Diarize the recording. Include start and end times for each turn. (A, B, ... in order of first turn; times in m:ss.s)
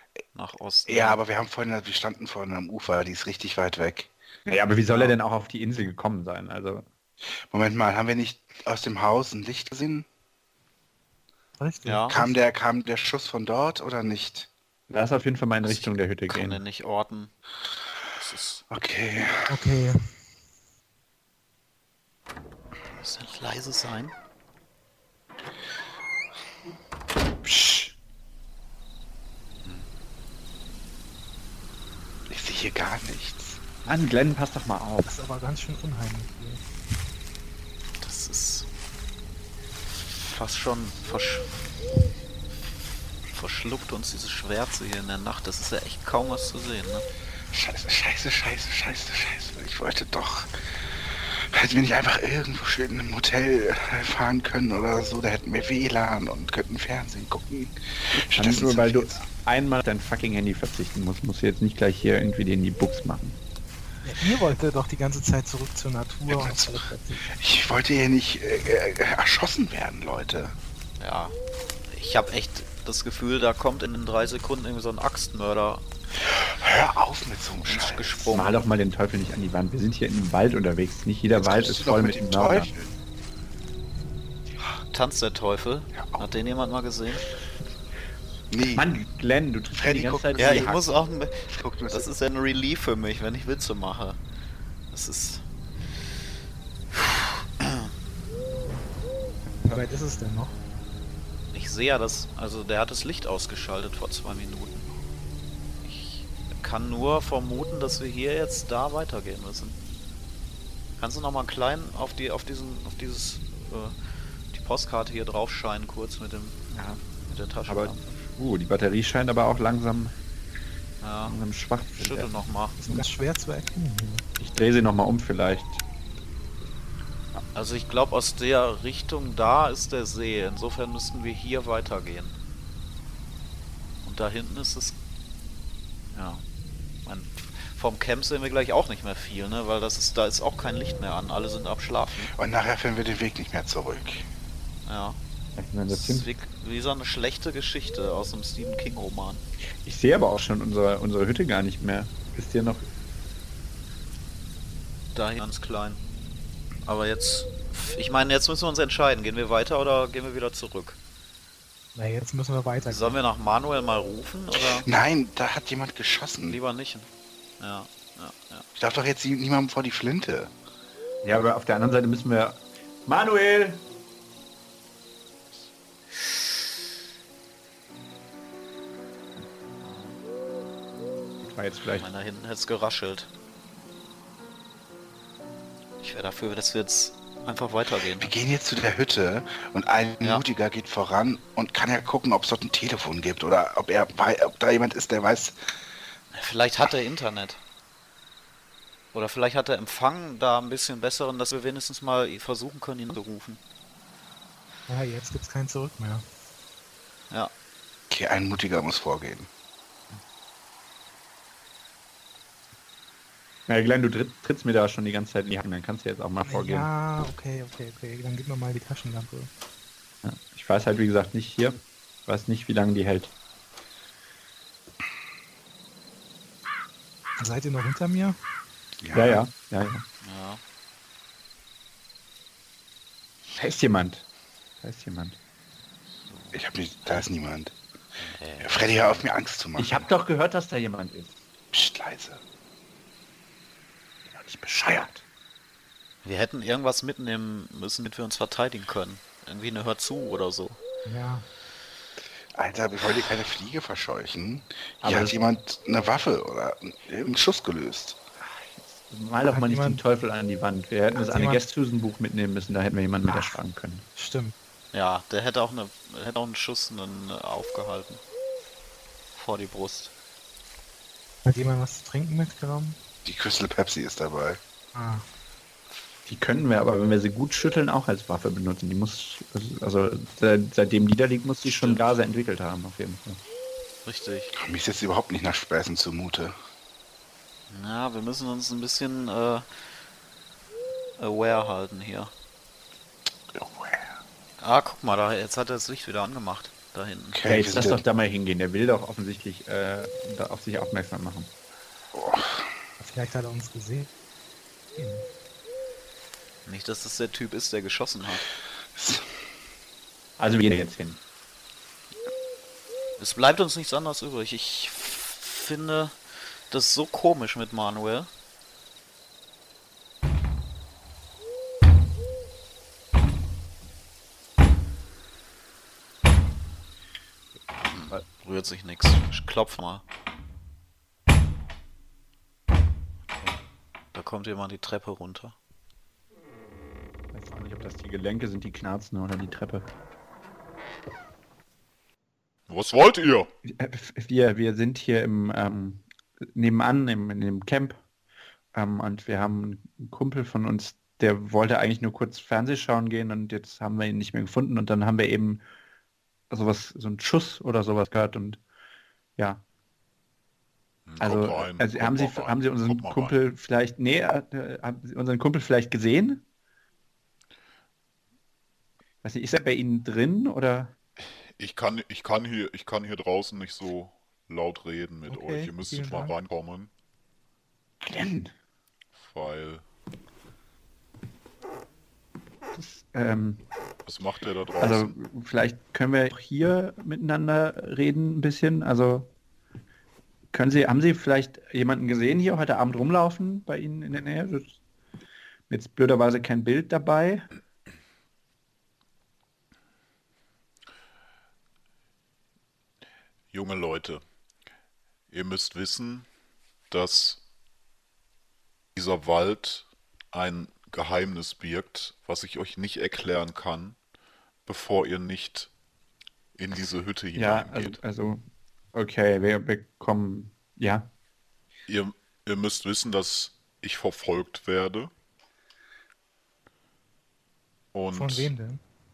0:00.3-0:01.2 A
0:00.9-0:04.1 B
0:04.4-0:06.8 C
0:07.5-0:10.0 B
0:11.6-0:12.4 D
0:11.8-0:12.2 A
0:12.1-0:14.5 B
0:14.9-0:16.6 C
0:15.6-0:17.3 A
0:18.2-0:18.6 A
0:18.7-0:19.5 B
0:19.5-0:20.0 D
0:22.9-0:24.1 A
0:27.4-0:27.9 C
0:32.3-0:33.6 B
0:33.8-0:35.1 C
0:35.0-0:36.6 D
0:38.0-0:38.7 A
0:40.1-0:41.5 A
0:43.3-0:47.0 A
0:47.5-0:50.5 B
0:51.5-0:59.2 B
0:58.1-1:03.4 C
1:04.0-1:07.2 D
1:06.3-1:10.5 B
1:11.0-1:11.4 A
1:11.9-1:15.8 A
1:16.2-1:18.3 B
1:17.6-1:18.5 A
1:18.3-1:22.7 C
1:21.4-1:22.9 B
1:24.9-1:27.2 A
1:25.9-1:26.2 B
1:28.5-1:28.8 B
1:28.7-1:30.8 C
1:29.7-1:30.9 B
1:30.4-1:34.2 A
1:31.5-1:32.1 B
1:34.9-1:35.4 A
1:36.9-1:37.9 A
1:39.6-1:39.8 C
1:39.7-1:40.5 D
1:41.5-1:44.9 A
1:45.8-1:49.8 A
1:51.0-1:53.9 A
1:54.5-1:56.6 A
1:56.7-1:57.0 C
1:57.2-1:58.3 A
1:57.7-2:00.2 C
2:01.0-2:01.4 A
2:01.2-2:02.3 C
2:02.0-2:02.8 A
2:02.8-2:04.2 D
2:04.4-2:05.8 C
2:07.5-2:12.4 A
2:14.0-2:15.0 A
2:16.1-2:16.4 A
2:17.0-2:22.3 A
2:22.4-2:24.2 B
2:24.8-2:25.2 A
2:25.6-2:26.3 C
2:25.9-2:29.4 A
2:29.8-2:32.8 C
2:35.1-2:36.0 A
2:36.8-2:41.0 A
2:41.9-2:43.2 D
2:42.9-2:44.9 A
2:44.5-2:46.6 B
2:46.5-2:47.1 A
2:47.6-2:48.7 A
2:48.8-2:50.5 B
2:51.2-2:53.8 C
2:59.8-3:00.2 A
3:01.4-3:02.1 C
3:02.0-3:03.3 A
3:06.0-3:08.3 A
3:08.1-3:15.6 B
3:16.3-3:17.6 A
3:19.1-3:23.6 A
3:24.9-3:26.2 D
3:28.1-3:29.5 B
3:33.7-3:36.9 C
3:36.4-3:39.5 D
3:40.2-3:43.3 C
3:47.4-3:48.4 D
3:49.0-3:49.4 B
3:49.1-3:50.0 C
3:50.2-3:50.6 A
3:53.6-3:54.2 C
3:54.8-3:55.4 C
3:56.3-3:57.2 A
3:56.5-3:57.7 B
3:58.2-3:59.3 A
3:58.6-4:00.0 B
3:59.8-4:01.4 C
4:01.7-4:02.4 B
4:04.2-4:05.2 C
4:06.2-4:10.8 A
4:11.0-4:11.4 D
4:12.5-4:18.2 B
4:15.0-4:15.4 C
4:18.4-4:24.0 C
4:19.5-4:20.0 D
4:21.2-4:21.6 D
4:24.2-4:24.5 D
4:24.9-4:28.2 A
4:29.3-4:30.1 A
4:31.4-4:33.0 D
4:33.2-4:34.6 B
4:34.9-4:35.2 D
4:36.2-4:43.4 C
4:41.6-4:42.0 A
4:44.0-4:44.5 A
4:44.6-4:46.5 B
4:47.7-4:49.6 A
4:51.2-4:52.3 A
4:53.5-4:54.1 B
4:54.6-4:57.4 A
4:57.3-4:58.0 B
4:57.4-5:01.5 C
5:02.1-5:02.6 B
5:03.0-5:04.1 D
5:05.0-5:05.2 D
5:06.6-5:08.5 A
5:09.0-5:09.2 B
5:10.4-5:11.2 C
5:13.2-5:16.2 A
5:16.7-5:18.3 A
5:27.9-5:30.0 A
5:34.1-5:35.5 A
5:37.3-5:39.9 C
5:42.7-5:43.5 E
5:43.6-5:48.0 C
5:48.7-5:55.6 C
5:56.5-5:58.6 C
5:59.4-5:59.6 C
6:01.0-6:03.4 E
6:01.2-6:06.4 C
6:09.2-6:10.9 C
6:11.6-6:16.9 E
6:15.3-6:16.3 D
6:18.0-6:18.5 C
6:19.2-6:19.8 E
6:22.7-6:23.6 C
6:24.0-6:25.1 E
6:24.8-6:29.3 C
6:30.5-6:34.8 C
6:35.7-6:37.5 C
6:43.5-6:44.2 E
6:45.3-6:46.3 E
6:46.9-6:47.4 E
6:48.9-6:54.0 E
6:54.6-6:55.7 E
6:56.6-6:58.0 E
6:57.3-7:01.1 C
7:01.9-7:05.1 E
7:07.9-7:08.5 E
7:08.1-7:08.8 D